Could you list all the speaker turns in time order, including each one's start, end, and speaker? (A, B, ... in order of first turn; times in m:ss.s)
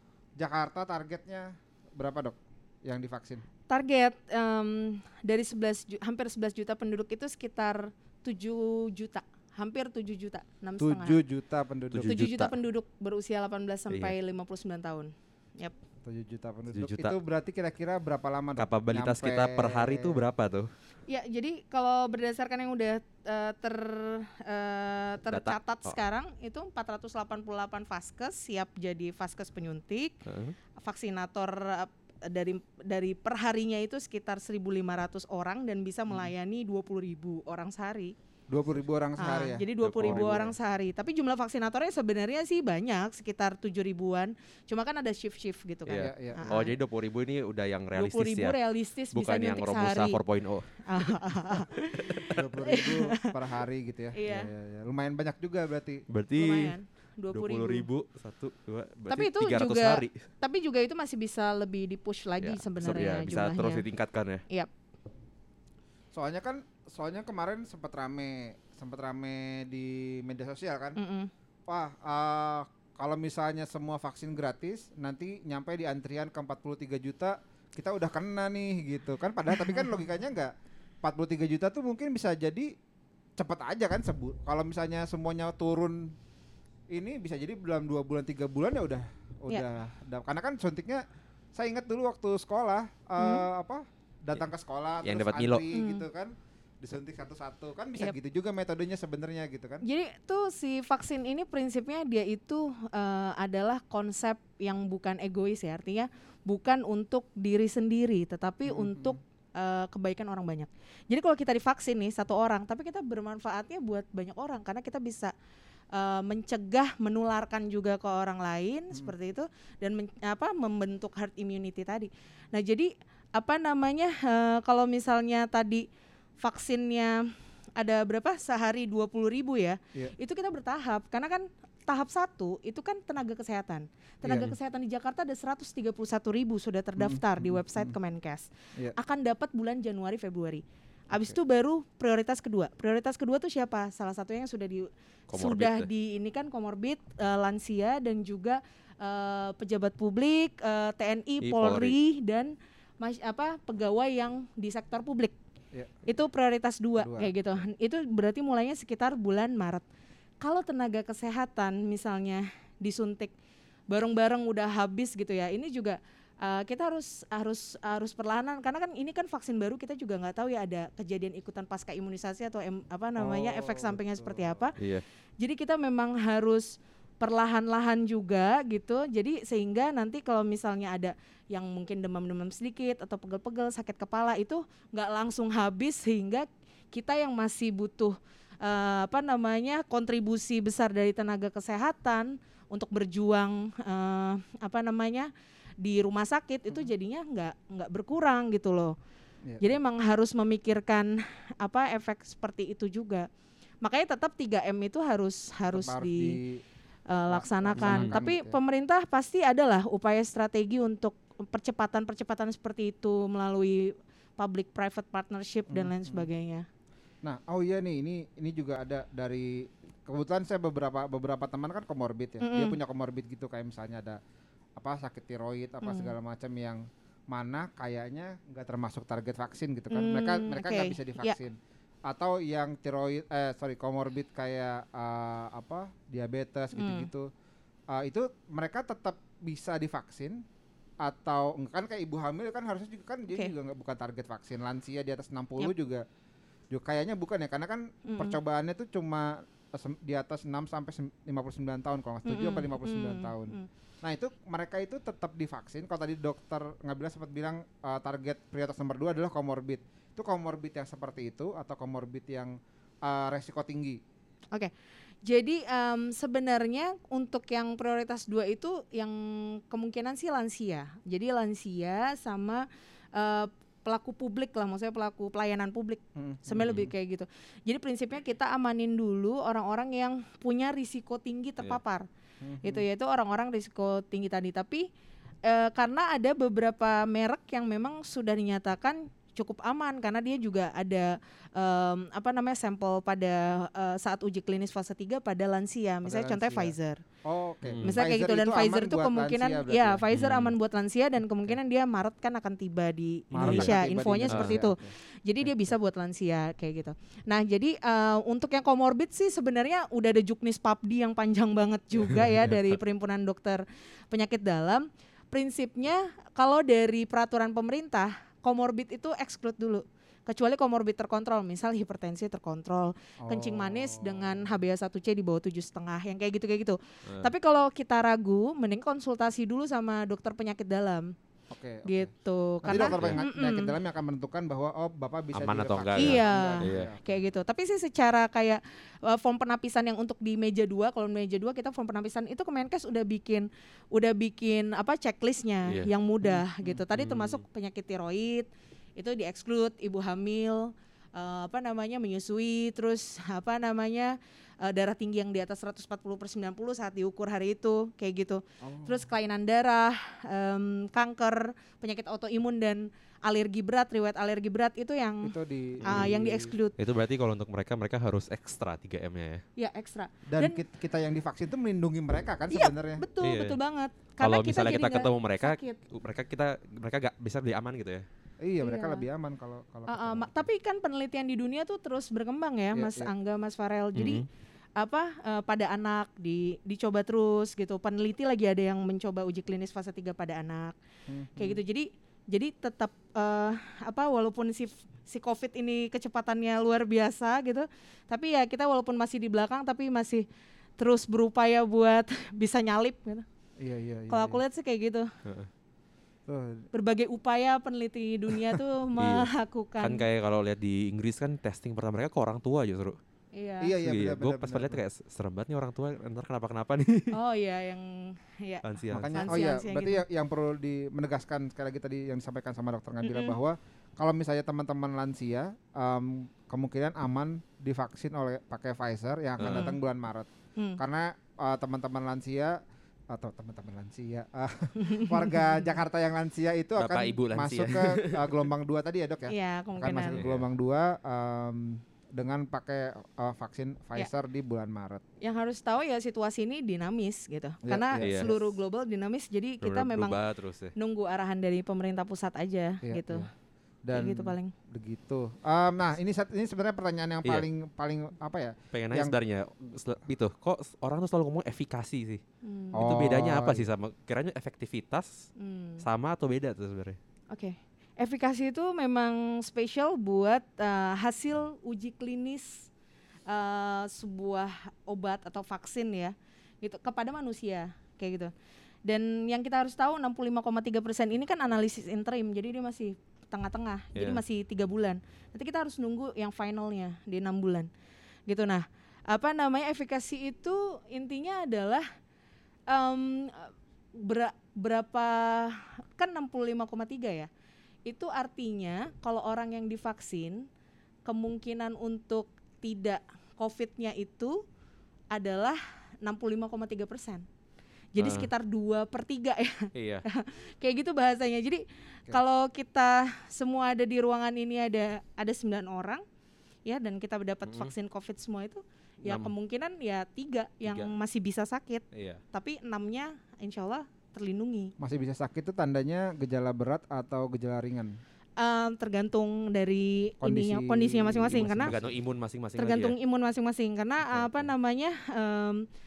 0:00.4-0:03.4 A
0:03.7-0:11.2 B
0:10.8-0:12.2 A
0:11.9-0:12.5 C
0:12.1-0:15.8 B
0:16.0-0:20.2 A
0:16.7-0:17.2 C
0:18.6-0:20.7 C
0:21.1-0:30.2 B
0:25.3-0:26.0 C
0:30.2-0:30.6 C
0:30.8-0:38.1 B
0:38.5-0:40.5 A
0:39.2-0:46.7 B
0:39.8-0:40.5 C
0:45.9-0:48.6 C
0:45.9-0:46.6 A
0:48.0-0:50.2 B
0:49.1-0:51.2 C
0:50.9-0:53.3 B
0:52.1-0:52.4 C
0:52.3-0:56.0 A
0:54.1-0:54.5 B
0:56.1-0:56.8 C
0:56.3-0:57.9 B
0:57.3-1:00.2 C
0:59.1-1:03.8 B
1:02.4-1:04.4 C
1:06.1-1:11.0 A
1:11.0-1:11.3 B
1:11.7-1:20.5 A
1:21.0-1:22.7 A
1:23.4-1:26.1 A
1:26.9-1:39.8 A
1:33.2-1:33.4 B
1:35.0-1:35.6 C
1:35.7-1:36.0 B
1:39.8-1:55.3 B
1:48.7-1:49.2 A
1:55.9-2:05.8 B
2:06.4-2:07.2 B
2:07.8-2:35.4 B
2:14.2-2:14.5 A
2:17.0-2:17.9 A
2:25.3-2:25.9 C
2:31.4-2:32.0 C
2:36.0-2:39.8 B
2:37.0-2:37.3 A
2:40.4-2:43.3 B
2:43.9-2:54.8 B
2:53.2-2:54.7 A
2:54.8-2:55.0 C
2:55.4-3:15.3 B
3:15.8-3:18.9 B
3:19.4-3:19.7 A
3:19.6-3:23.3 B
3:23.8-3:26.4 B
3:25.7-3:26.6 A
3:27.1-3:36.6 B
3:27.3-3:28.6 A
3:27.8-3:28.1 C
3:35.7-3:36.3 A
3:37.2-3:44.2 A
3:42.4-3:42.8 B
3:44.8-3:57.3 A
3:45.8-3:46.1 B
3:49.9-3:51.4 B
3:56.7-3:57.1 B
3:57.9-4:00.4 A
4:01.0-4:06.0 A
4:06.7-4:24.0 A
4:08.0-4:08.4 B
4:12.2-4:13.7 B
4:25.2-4:42.1 B
4:36.2-4:36.9 A
4:36.6-4:36.9 C
4:42.4-4:42.8 A
4:42.6-4:44.9 B
4:45.4-4:57.0 B
4:56.0-5:00.0 A
4:57.6-4:57.9 C
4:57.8-5:31.1 B
5:00.1-5:00.5 C
5:03.3-5:04.9 A
5:03.4-5:03.7 C
5:04.3-5:04.6 C
5:23.2-5:24.4 A
5:31.5-5:32.1 A
5:31.8-5:33.7 B
5:32.6-5:37.0 A
5:32.7-5:33.2 C
5:35.3-5:36.9 C
5:36.0-6:06.8 B
5:46.3-5:46.8 A
5:47.0-5:47.4 C
5:58.6-5:59.0 A
6:05.2-6:06.5 A
6:05.8-6:06.1 C
6:06.8-6:09.4 C
6:09.6-6:10.6 B
6:10.3-6:13.0 A
6:12.5-6:15.8 B
6:13.2-6:13.6 C
6:14.2-6:18.0 C
6:18.4-6:20.4 A
6:18.6-6:19.0 B
6:19.9-6:24.2 B
6:22.7-6:23.1 A
6:24.0-6:24.2 C
6:24.8-6:30.8 B
6:31.1-6:31.6 A
6:31.4-6:40.2 B
6:40.8-6:43.2 B
6:43.6-6:44.4 A
6:44.1-6:45.1 B
6:46.2-6:46.7 A
6:46.7-6:50.0 B
6:49.0-6:49.3 C
6:49.8-6:53.0 C
6:53.3-6:53.7 B
6:53.6-6:54.8 A
6:53.8-6:57.1 C
6:57.1-7:00.0 B
6:58.6-6:59.3 C
6:58.9-7:12.6 A
7:03.0-7:03.3 B
7:09.4-7:09.7 C
7:09.5-7:09.8 B
7:13.1-7:25.0 A
7:14.8-7:15.6 B
7:16.8-7:18.2 C
7:19.3-7:20.2 B
7:20.1-7:20.4 C
7:25.2-7:30.2 B
7:27.6-7:28.5 A
7:28.0-7:28.3 C
7:29.6-7:30.7 C
7:30.7-7:33.3 B
7:32.8-7:33.3 A
7:33.8-7:39.1 A
7:33.9-7:34.5 B
7:38.7-7:42.2 C
7:42.4-7:42.8 B
7:42.7-7:43.7 A
7:42.8-7:45.3 C
7:45.4-7:45.8 B
7:45.8-7:47.0 C
7:47.3-7:52.7 B
7:53.3-7:58.3 B
7:58.8-8:07.7 B
8:04.0-8:04.2 C
8:08.3-8:11.8 B
8:12.7-8:17.3 B
8:17.8-8:20.5 B
8:21.0-8:24.4 B
8:25.1-8:27.2 B
8:27.9-8:36.0 B
8:28.0-8:28.3 C
8:29.7-8:30.0 C
8:36.6-8:44.7 B
8:39.0-8:39.3 C
8:41.9-8:42.2 C
8:44.8-8:48.0 A
8:48.4-8:51.7 B
8:50.2-8:51.8 A
8:51.6-8:53.0 C
8:52.6-8:55.6 B